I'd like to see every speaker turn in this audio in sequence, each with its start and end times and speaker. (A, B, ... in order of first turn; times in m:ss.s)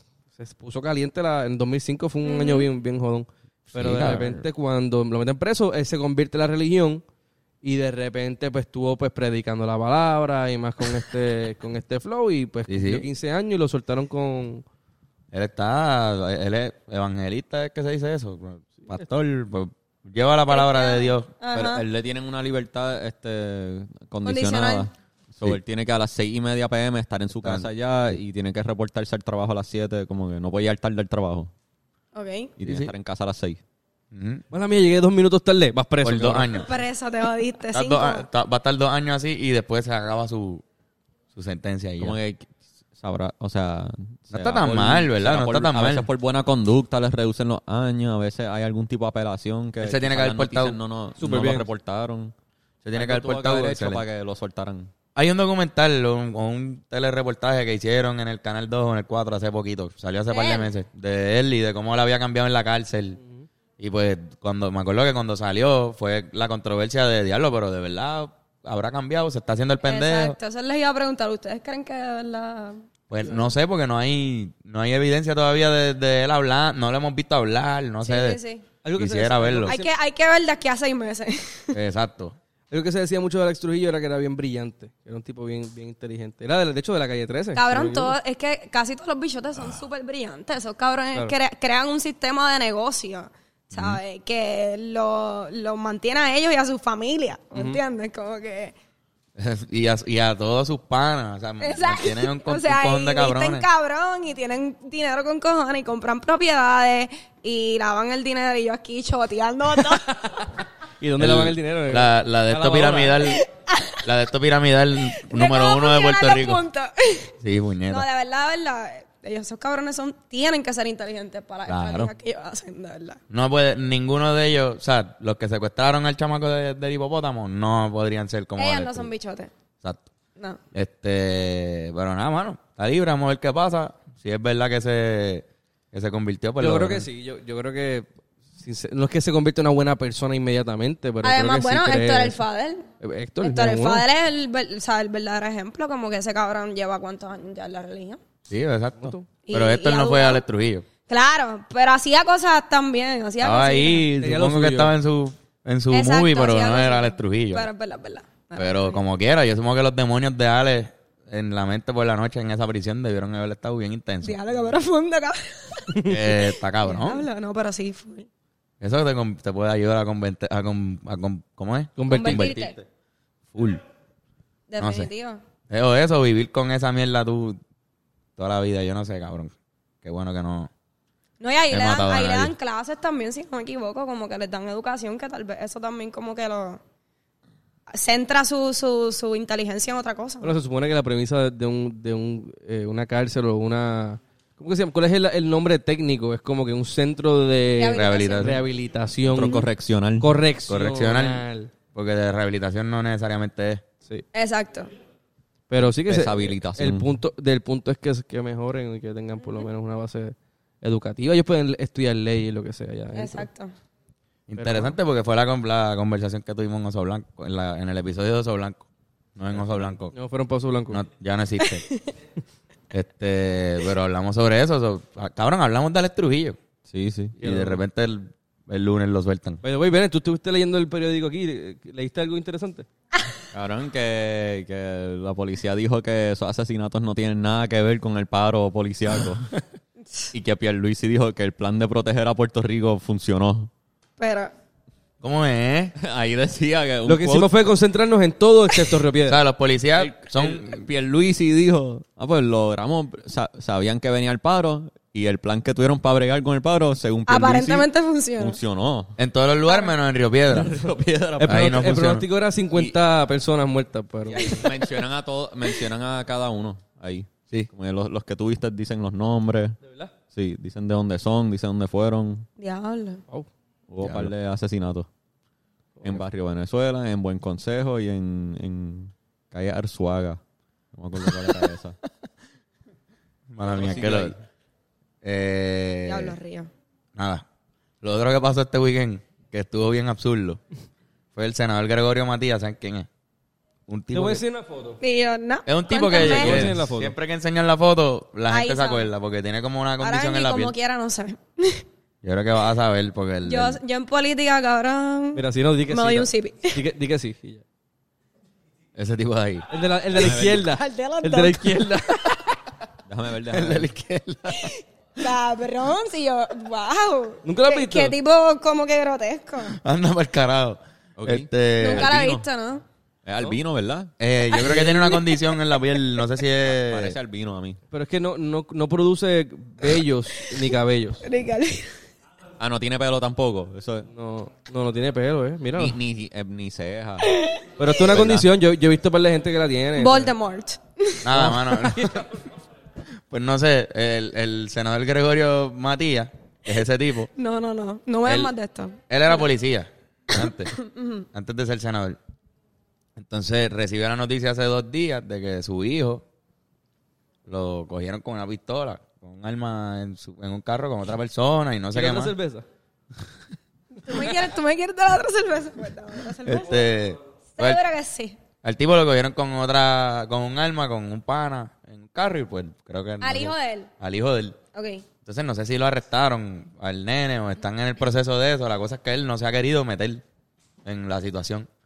0:00.4-0:07.0 A
0:02.2-0:02.6 B
0:03.7-0:04.4 C
0:03.8-0:04.2 D
0:07.6-0:14.6 A
0:12.7-0:13.0 D
0:15.3-0:21.3 D
0:20.5-0:21.8 B
0:21.5-0:31.5 C
0:24.2-0:24.9 B
0:27.4-0:27.7 D
0:32.1-0:32.5 B
0:32.6-0:33.6 C
0:32.6-0:32.9 D
0:34.1-0:34.4 D
0:34.5-0:36.6 A
0:36.0-0:36.7 D
0:36.5-0:38.2 B
0:37.7-0:40.6 D
0:41.3-0:42.2 D
0:42.0-0:52.3 C
0:44.3-0:46.0 D
0:49.8-0:50.8 D
0:51.2-0:51.7 A
0:52.8-0:54.0 D
0:52.9-0:54.9 C
0:55.1-1:03.2 D
1:00.3-1:00.7 B
1:03.2-1:03.4 A
1:03.8-1:10.4 D
1:09.8-1:12.8 B
1:13.1-1:18.4 D
1:18.0-1:18.6 B
1:18.8-1:19.9 A
1:19.0-1:19.8 D
1:19.6-1:21.8 B
1:21.7-1:22.4 D
1:22.7-1:28.2 A
1:27.5-1:38.7 B
1:33.7-1:34.0 D
1:37.5-1:37.8 A
1:39.4-1:43.6 D
1:41.6-1:50.1 B
1:49.8-1:53.3 A
1:51.2-1:53.4 D
1:53.2-1:54.0 B
1:54.0-1:56.6 D
1:55.1-1:57.3 B
1:57.4-1:58.1 D
1:57.9-2:03.2 B
2:01.7-2:02.1 D
2:03.3-2:09.1 D
2:08.6-2:09.5 B
2:10.7-2:17.1 D
2:16.6-2:18.1 A
2:18.6-2:22.4 A
2:21.2-2:22.8 B
2:23.0-2:24.0 A
2:23.4-2:28.2 B
2:28.5-2:30.8 D
2:29.0-2:29.2 A
2:29.4-2:30.4 B
2:31.1-2:34.0 B
2:33.4-2:37.7 D
2:34.2-2:34.9 A
2:35.9-2:39.0 B
2:38.6-2:44.4 D
2:44.2-2:48.3 B
2:45.9-2:46.2 A
2:46.1-2:47.2 D
2:48.8-2:52.8 D
2:52.0-2:52.5 A
2:52.1-2:52.8 B
2:53.5-2:53.8 D
2:54.7-2:55.4 B
2:54.8-2:55.1 D
2:55.7-2:57.6 D
2:58.4-3:00.7 D
3:01.4-3:06.8 B
3:01.7-3:02.5 D
3:07.9-3:10.6 B
3:10.4-3:19.6 A
3:17.8-3:18.6 B
3:17.9-3:18.6 D
3:19.2-3:20.3 C
3:20.2-3:21.7 A
3:20.7-3:23.8 D
3:24.3-3:24.9 B
3:25.7-3:33.5 A
3:26.1-3:27.2 C
3:33.1-3:33.7 B
3:34.5-3:38.8 D
3:34.6-3:35.0 A
3:39.4-3:40.1 D
3:39.6-3:41.0 A
3:40.9-3:41.8 D
3:42.9-3:46.6 D
3:46.9-3:47.4 C
3:47.4-3:49.6 D
3:47.4-3:47.8 A
3:49.6-3:52.8 A
3:53.5-3:59.5 C
4:00.3-4:03.7 C
4:04.2-4:04.5 B
4:05.2-4:05.9 D
4:06.0-4:07.6 C
4:07.0-4:09.4 A
4:09.2-4:10.8 D
4:10.0-4:19.2 C
4:17.3-4:18.6 B
4:19.2-4:20.7 D
4:19.7-4:19.9 B
4:20.5-4:21.9 C
4:21.4-4:24.7 A
4:21.4-4:22.2 D
4:24.4-4:29.8 C
4:29.8-4:30.1 A
4:30.3-4:32.4 C
4:32.6-4:33.2 B
4:33.9-4:35.1 C
4:34.0-4:34.3 D
4:36.0-4:36.2 A
4:36.0-4:40.4 C
4:40.9-4:42.0 C
4:43.5-4:44.4 D
4:43.7-4:44.4 C
4:45.2-4:46.3 D
4:46.0-4:46.7 B
4:47.2-4:47.4 D
4:48.0-4:50.6 D
4:51.3-4:53.1 D
4:53.9-4:54.4 D
4:54.1-4:55.0 A
4:55.0-4:56.7 B
4:55.6-5:00.7 D
4:56.1-4:57.1 A
4:58.5-4:59.1 B
5:00.0-5:01.8 B
5:02.2-5:03.8 D
5:03.4-5:06.8 B
5:05.3-5:07.6 A
5:09.0-5:09.7 D
5:09.7-5:12.4 A
5:10.2-5:10.7 C
5:10.6-5:12.4 B
5:13.0-5:13.9 C
5:13.5-5:14.7 D
5:14.5-5:19.8 B
5:17.4-5:18.1 A
5:19.8-5:22.1 D
5:21.2-5:22.4 C
5:21.8-5:22.8 B
5:23.2-5:24.1 C
5:24.2-5:27.2 D
5:24.7-5:25.2 B
5:26.8-5:27.8 C
5:27.9-5:31.2 A
5:31.2-5:31.9 B
5:32.6-5:34.1 C
5:34.1-5:36.0 A
5:35.8-5:37.3 C
5:37.2-5:37.6 B
5:37.8-5:40.3 A
5:37.9-5:38.5 C
5:40.0-5:41.2 B
5:41.2-5:42.3 D
5:41.3-5:42.2 A
5:43.3-5:47.3 D
5:47.4-5:49.4 B
5:48.2-5:48.5 D
5:49.1-5:50.8 D
5:50.7-5:51.2 B
5:51.3-5:52.2 D
5:53.2-5:56.2 D
5:57.5-6:02.3 D
6:01.9-6:02.6 A
6:04.0-6:06.7 B
6:06.4-6:07.8 D
6:07.6-6:08.4 B
6:08.6-6:14.6 D
6:13.2-6:13.9 B
6:14.7-6:15.0 B
6:15.2-6:20.2 D
6:20.8-6:21.7 D